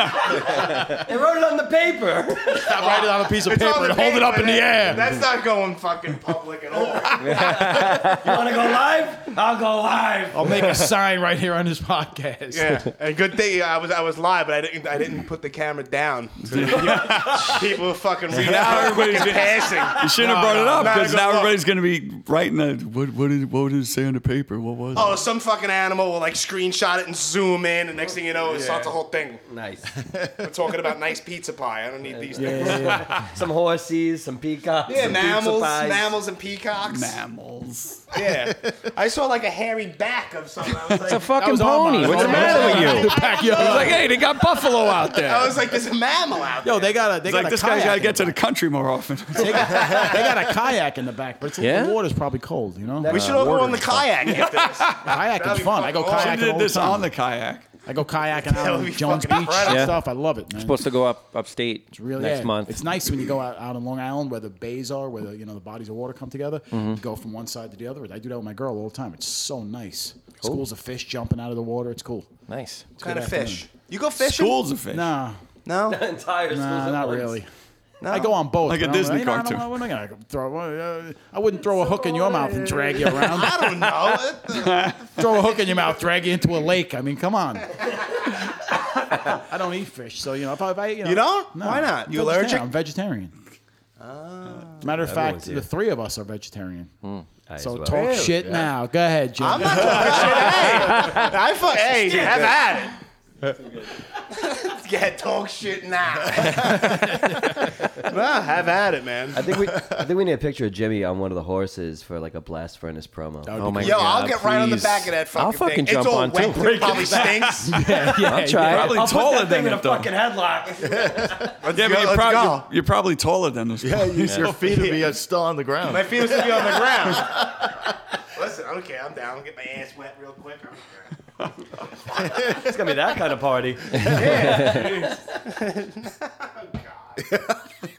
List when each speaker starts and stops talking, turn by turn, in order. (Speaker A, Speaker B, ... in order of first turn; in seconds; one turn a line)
Speaker A: 0.1-3.1
Speaker B: 2.6-5.1
Speaker C: 2.6-7.6
Speaker A: 6.9-10.9
Speaker B: 7.4-7.9
Speaker D: 7.5-8.1
Speaker B: 10.3-12.9
Speaker C: 12.5-21.6
Speaker E: 16.5-25.3
Speaker B: 20.2-21.1
Speaker C: 24.9-29.4
Speaker A: 28.6-28.9
Speaker A: 29.4-29.9
Speaker F: 30.0-30.5
Speaker C: 30.4-33.0
Speaker A: 32.1-36.1
Speaker B: 32.3-33.1
Speaker C: 34.8-37.2
Speaker E: 36.8-38.1
Speaker C: 38.1-41.3
Speaker D: 41.0-43.1
Speaker B: 41.3-44.1
Speaker E: 42.0-45.6
Speaker C: 42.0-44.1
Speaker C: 45.1-47.0
Speaker B: 46.6-48.4
Speaker E: 47.2-49.9
Speaker B: 49.4-53.2
Speaker C: 49.5-50.5
Speaker D: 51.6-52.0
Speaker A: 53.0-53.4
Speaker C: 53.0-56.5
Speaker D: 53.1-53.9
Speaker E: 54.2-55.2
Speaker B: 55.0-57.1
Speaker E: 56.1-57.6
Speaker B: 57.8-60.8
Speaker C: 58.4-59.9
Speaker D: 59.6-62.8
Speaker B: 61.9-72.3
Speaker D: 66.7-67.0
Speaker D: 72.5-72.9
Speaker B: 72.9-73.7
Speaker C: 73.0-74.6
Speaker E: 74.2-75.1
Speaker B: 74.9-75.4
Speaker C: 75.6-76.0
Speaker A: 75.9-77.4
Speaker B: 76.5-77.5
Speaker C: 78.0-78.3
Speaker B: 78.1-83.9
Speaker E: 78.6-79.7
Speaker C: 81.8-84.9
Speaker E: 84.5-85.2
Speaker B: 85.2-87.7
Speaker B: 89.2-93.3
Speaker C: 91.0-92.7
Speaker C: 94.0-94.9
Speaker B: 94.8-96.9
Speaker A: 95.0-95.7
Speaker A: 97.5-98.4
Speaker B: 97.6-101.1
Speaker C: 97.9-98.6
Speaker C: 99.4-103.0
Speaker A: 102.1-102.5
Speaker C: 104.1-109.5
Speaker A: 109.3-113.7
Speaker F: 109.8-110.0
Speaker B: 113.4-114.1
Speaker D: 113.5-117.4
Speaker C: 113.8-117.9
Speaker A: 116.9-117.3
Speaker E: 117.2-117.6
Speaker B: 117.6-118.9
Speaker A: 118.1-121.5
Speaker D: 118.1-119.0
Speaker E: 118.5-120.1
Speaker C: 120.7-122.7
Speaker F: 120.9-121.5
Speaker E: 121.7-124.7
Speaker F: 123.8-127.4
Speaker D: 124.2-124.5
Speaker C: 124.7-125.0
Speaker C: 125.8-127.6
Speaker C: 128.3-131.1
Speaker C: 132.2-132.4
Speaker A: 132.2-135.3
Speaker C: 133.9-137.3
Speaker D: 134.0-135.0